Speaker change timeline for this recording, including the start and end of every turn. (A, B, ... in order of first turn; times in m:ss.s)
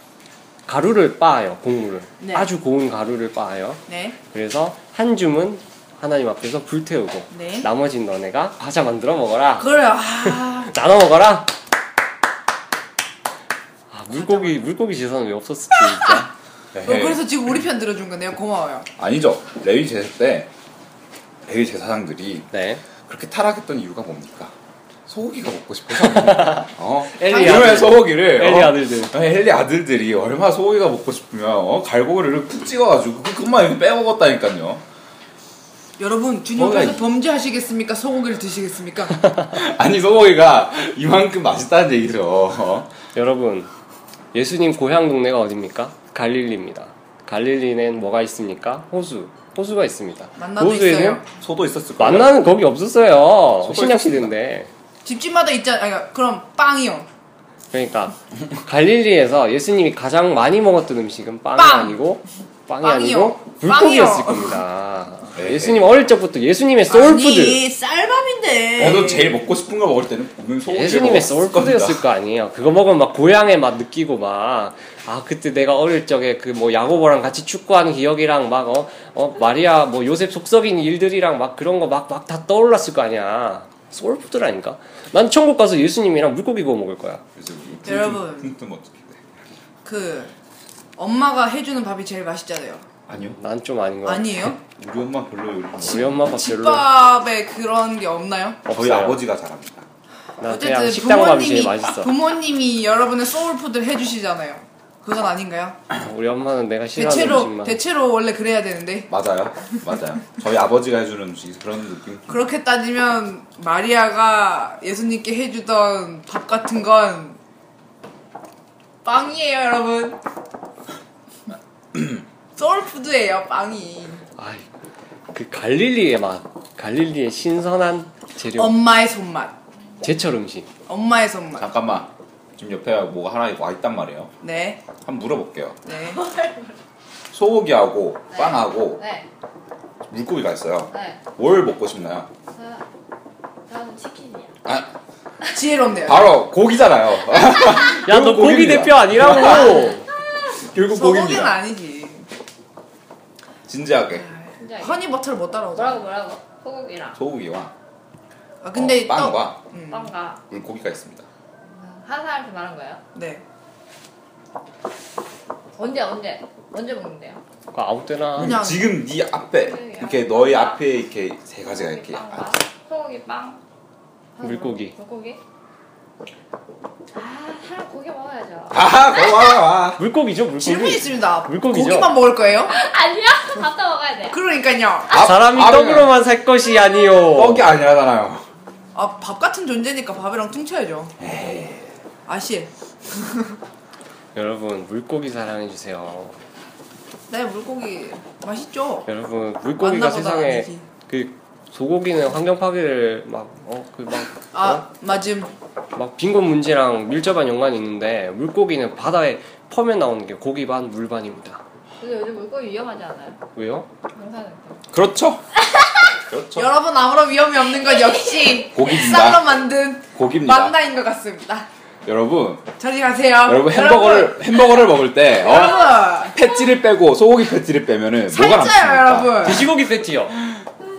0:00.7-0:09.7 A
0:02.2-0:02.5 B
0:03.9-0:04.2 B
0:07.3-0:07.7 B
0:09.6-0:10.7 B
0:10.2-0:11.5 A
0:13.9-0:16.3 A
0:14.2-0:14.6 B
0:16.7-0:17.2 C
0:16.8-0:18.9 B
0:19.0-0:20.5 C
0:21.5-0:22.5 C
0:22.5-0:22.8 A
0:23.0-0:24.5 C
0:25.1-0:34.8 C
0:26.0-0:29.1 A
0:27.3-0:28.0 B
0:36.0-0:39.4 B
0:36.6-0:37.0 C
0:39.5-0:42.9 C
0:43.1-0:43.7 A
0:44.3-0:51.2 A
0:50.4-0:51.3 B
0:51.4-0:52.4 C
0:52.0-0:54.7 A
0:53.6-0:54.3 C
0:55.0-0:57.1 B
0:57.7-1:07.6 A
1:01.6-1:02.0 B
1:02.8-1:04.6 B
1:05.4-1:05.8 C
1:06.9-1:09.4 B
1:08.8-1:12.0 C
1:10.7-1:27.2 A
1:27.4-1:29.2 C
1:27.8-1:28.5 B
1:29.8-1:30.3 B
1:31.0-1:32.9 B
1:33.1-1:33.4 C
1:33.4-1:34.5 A
1:34.0-1:34.6 B
1:34.8-1:36.2 C
1:35.8-1:36.9 A
1:36.2-1:38.6 B
1:38.7-1:39.2 A
1:38.7-1:39.9 C
1:40.4-1:42.1 A
1:40.4-1:45.8 B
1:46.0-1:47.8 A
1:47.0-1:49.1 B
1:49.1-1:52.3 C
1:52.3-1:57.4 B
1:59.0-2:00.2 B
2:02.6-2:04.2 B
2:04.4-2:04.7 A
2:05.3-2:08.8 A
2:08.6-2:09.6 B
2:10.0-2:10.7 A
2:10.9-2:11.7 B
2:11.6-2:14.3 C
2:14.4-2:14.8 B
2:15.0-2:15.8 C
2:15.8-2:16.2 B
2:16.1-2:16.8 D
2:17.3-2:19.0 C
2:18.3-2:19.3 D
2:20.1-2:22.3 C
2:20.9-2:21.2 D
2:22.5-2:22.8 D
2:23.7-2:24.6 D
2:24.7-2:24.9 C
2:25.5-2:26.4 B
2:26.0-2:29.9 C
2:28.0-2:30.0 A
2:29.6-2:30.6 D
2:30.6-2:31.6 C
2:30.9-2:32.3 B
2:33.7-2:34.3 C
2:34.2-2:36.1 B
2:34.6-2:35.0 D
2:35.8-2:37.2 D
2:37.2-2:37.7 C
2:38.6-2:40.1 B
2:38.7-2:39.6 C
2:39.9-2:40.4 D
2:40.5-2:41.3 C
2:41.6-2:43.0 D
2:43.2-2:43.4 B
2:45.8-2:47.4 D
2:47.7-2:48.6 A
2:48.4-2:49.0 B
2:48.4-2:52.6 C
2:49.6-2:50.8 D
2:51.7-2:53.6 D
2:54.4-2:55.4 D
2:54.4-2:55.0 A
2:57.1-2:59.7 D
2:58.7-3:00.0 C
3:00.0-3:02.2 A
3:00.6-3:02.8 B
3:02.7-3:04.4 D
3:04.3-3:05.2 B
3:05.1-3:06.2 C
3:05.1-3:07.7 A
3:07.3-3:08.5 C
3:08.9-3:11.2 B
3:11.2-3:11.9 C
3:12.3-3:13.5 B
3:14.4-3:16.4 A
3:17.3-3:19.1 B
3:19.1-3:24.8 A
3:19.7-3:20.9 B
3:24.5-3:25.5 B
3:26.0-3:31.6 A
3:32.0-3:33.4 D
3:33.6-3:33.9 A
3:34.1-3:34.8 D
3:34.9-3:35.4 C
3:36.3-3:36.7 C
3:36.6-3:41.7 B
3:38.7-3:39.5 C
3:40.2-3:40.8 C
3:42.1-3:42.7 C
3:42.8-3:44.4 B
3:43.5-3:49.7 C
3:45.3-3:46.4 B
3:48.3-3:49.7 B
3:49.4-3:50.4 A